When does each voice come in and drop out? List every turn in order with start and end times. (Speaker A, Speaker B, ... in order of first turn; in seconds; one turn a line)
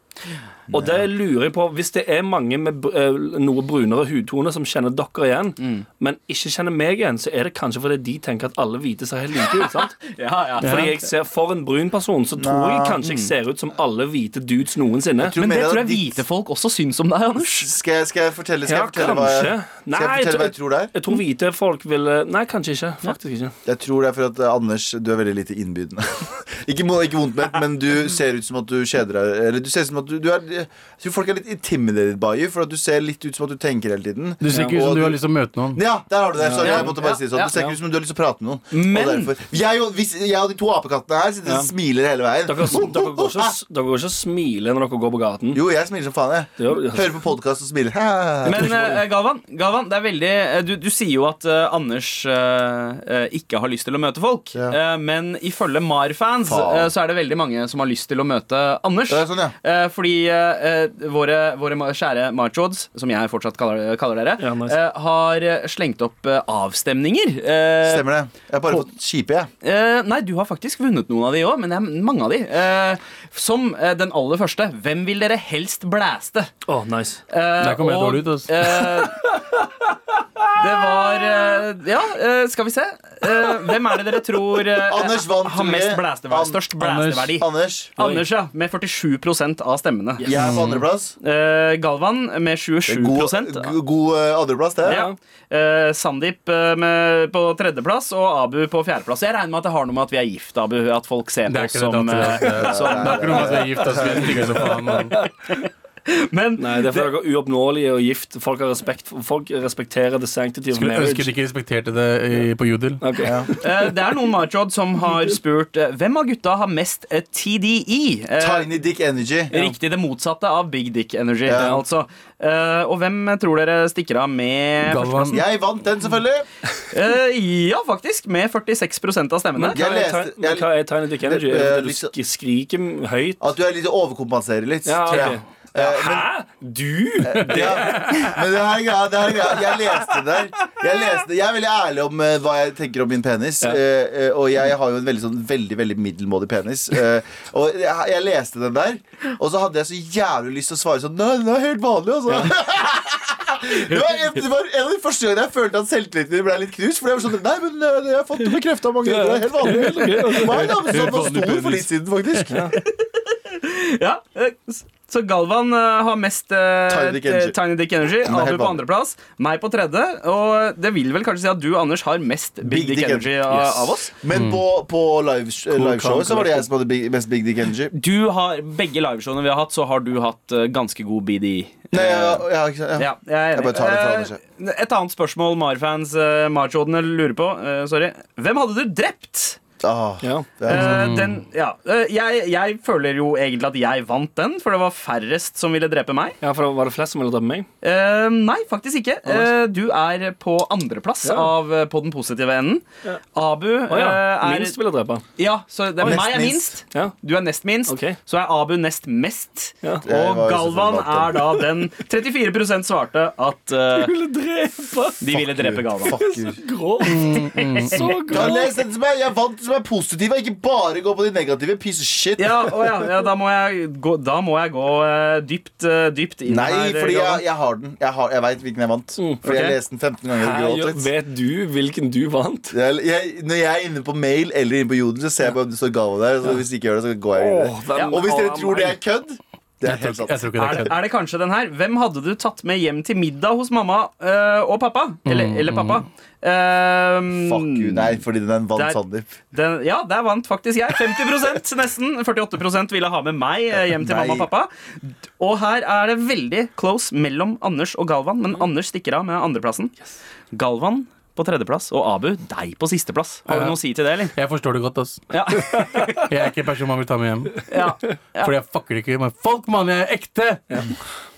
Speaker A: 0.7-9.9
Speaker B: 0.7-1.1
Speaker C: 9.6-10.9
Speaker D: 10.6-10.9
Speaker A: 10.6-15.4
Speaker B: 12.4-13.0
Speaker C: 13.0-13.3
Speaker B: 15.2-16.2
Speaker C: 15.4-17.7
Speaker B: 17.4-20.9
Speaker A: 18.6-23.5
Speaker B: 23.6-35.2
Speaker D: 34.4-35.8
Speaker A: 34.5-34.8
Speaker B: 35.7-43.5
Speaker A: 36.4-37.0
Speaker C: 36.6-37.5
Speaker C: 38.7-39.3
Speaker A: 41.4-41.7
Speaker A: 42.4-45.6
Speaker B: 45.5-48.8
Speaker A: 46.6-47.2
Speaker C: 48.4-68.1
Speaker A: 48.6-49.0
Speaker B: 56.4-56.9
Speaker B: 59.1-59.5
Speaker A: 64.4-64.8
Speaker B: 67.8-69.5
Speaker C: 69.6-76.5
Speaker A: 76.7-77.2
Speaker C: 77.3-79.6
Speaker D: 77.6-78.5
Speaker A: 78.7-79.5
Speaker C: 80.4-90.3
Speaker B: 84.9-86.7
Speaker D: 86.8-87.3
Speaker B: 87.3-88.0
Speaker A: 88.0-88.2
Speaker B: 90.2-91.1
Speaker D: 90.4-90.8
Speaker C: 91.2-93.7
Speaker B: 92.9-95.0
Speaker C: 94.8-103.5
Speaker A: 94.8-95.1
Speaker D: 101.5-105.2
Speaker B: 102.6-104.3
Speaker A: 104.0-105.3
Speaker C: 105.4-107.1
Speaker A: 106.6-111.3
Speaker D: 110.7-113.2
Speaker A: 113.0-113.9
Speaker B: 113.2-113.5
Speaker C: 113.6-118.7
Speaker B: 118.4-119.5
Speaker C: 119.5-125.4
Speaker B: 121.4-121.8
Speaker D: 124.8-125.4
Speaker B: 125.3-126.5
Speaker C: 126.9-129.8
Speaker A: 129.6-133.5
Speaker B: 129.7-132.1
Speaker B: 133.4-136.3
Speaker A: 134.8-138.1
Speaker B: 137.2-162.6
Speaker C: 137.5-138.2
Speaker A: 152.3-152.5
Speaker C: 153.7-154.4
Speaker A: 159.0-161.0
Speaker C: 159.9-160.4
Speaker D: 160.5-161.9
Speaker A: 162.5-162.8
Speaker C: 162.7-174.2
Speaker B: 166.9-167.6
Speaker B: 168.2-168.8
Speaker B: 172.6-173.3
Speaker A: 173.4-174.0
Speaker B: 174.2-177.9
Speaker D: 174.3-174.6
Speaker A: 175.7-176.7
Speaker C: 177.9-189.6
Speaker B: 181.9-184.4
Speaker B: 189.8-191.1
Speaker A: 190.2-190.5
Speaker C: 190.7-196.4
Speaker D: 190.7-191.3
Speaker A: 196.4-197.7
Speaker C: 197.8-204.8
Speaker A: 199.2-199.5
Speaker A: 201.2-201.5
Speaker A: 203.9-205.2
Speaker C: 205.4-214.1
Speaker B: 206.0-206.7
Speaker A: 207.8-208.2
Speaker B: 210.0-211.5
Speaker A: 213.9-215.2
Speaker C: 215.2-216.2
Speaker B: 215.3-216.6
Speaker A: 216.2-218.6
Speaker D: 217.0-218.1
Speaker C: 217.2-218.7
Speaker B: 218.3-222.5
Speaker C: 222.4-227.4
Speaker B: 226.5-231.1
Speaker A: 229.2-229.4
Speaker C: 229.4-229.8
Speaker A: 230.3-232.7
Speaker B: 232.7-240.5
Speaker A: 237.3-239.0
Speaker D: 239.8-241.0
Speaker C: 240.5-248.2
Speaker D: 245.2-246.0
Speaker B: 247.3-249.3
Speaker C: 249.5-260.0
Speaker B: 253.9-254.5
Speaker C: 260.5-264.3
Speaker D: 263.5-263.8
Speaker D: 264.3-265.2
Speaker C: 265.3-266.2
Speaker A: 265.8-266.1
Speaker D: 266.2-267.8
Speaker C: 267.7-268.5
Speaker D: 268.4-270.8